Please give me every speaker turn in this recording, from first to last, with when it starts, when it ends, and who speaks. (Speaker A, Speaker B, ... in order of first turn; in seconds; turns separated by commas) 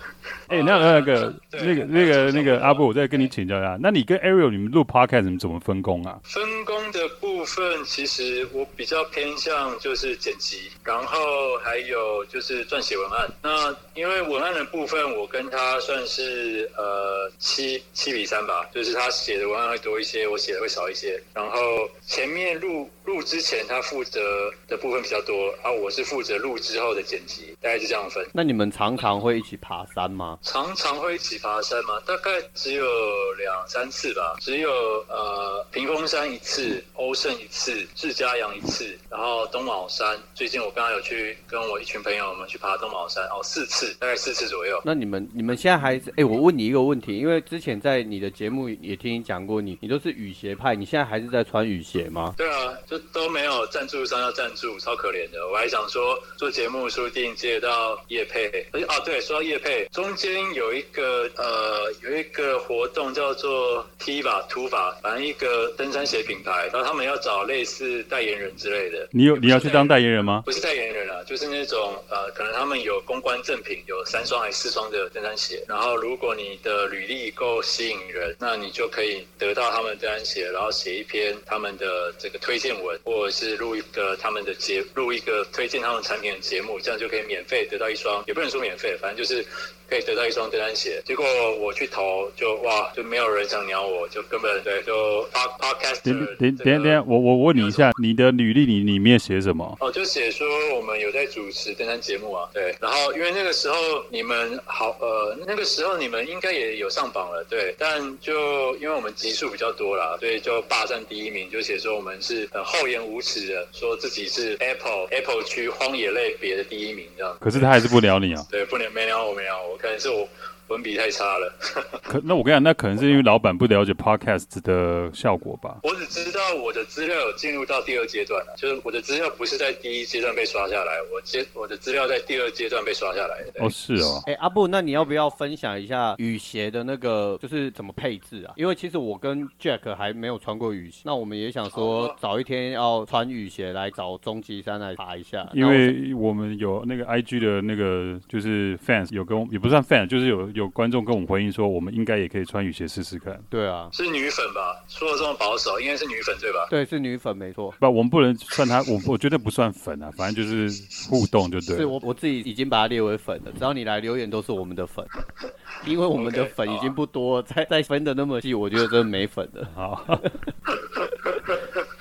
Speaker A: 0.5-3.3, Speaker B: 0.5-6.2, Speaker A: 6.3-28.3, Speaker C: 28.3-30.4, Speaker A: 30.4-44.9, Speaker C: 44.9-52.4, Speaker A: 52.4-97.0, Speaker B: 69.1-70.5, Speaker B: 96.0-99.8, Speaker A: 97.5-97.9, Speaker A: 99.8-117.7, Speaker B: 117.4-118.5, Speaker A: 118.5-122.0, Speaker B: 122.1-125.8, Speaker A: 125.8-133.7, Speaker B: 133.6-134.3, Speaker C: 134.2-145.9, Speaker A: 141.7-142.2, Speaker B: 145.5-153.5, Speaker C: 153.5-153.9, Speaker A: 153.9-156.7, Speaker C: 156.7-157.8, Speaker B: 157.8-161.9, Speaker C: 161.7-165.1, Speaker C: 165.8-170.3, Speaker A: 166.1-166.9, Speaker B: 169.7-170.3, Speaker A: 170.7-171.9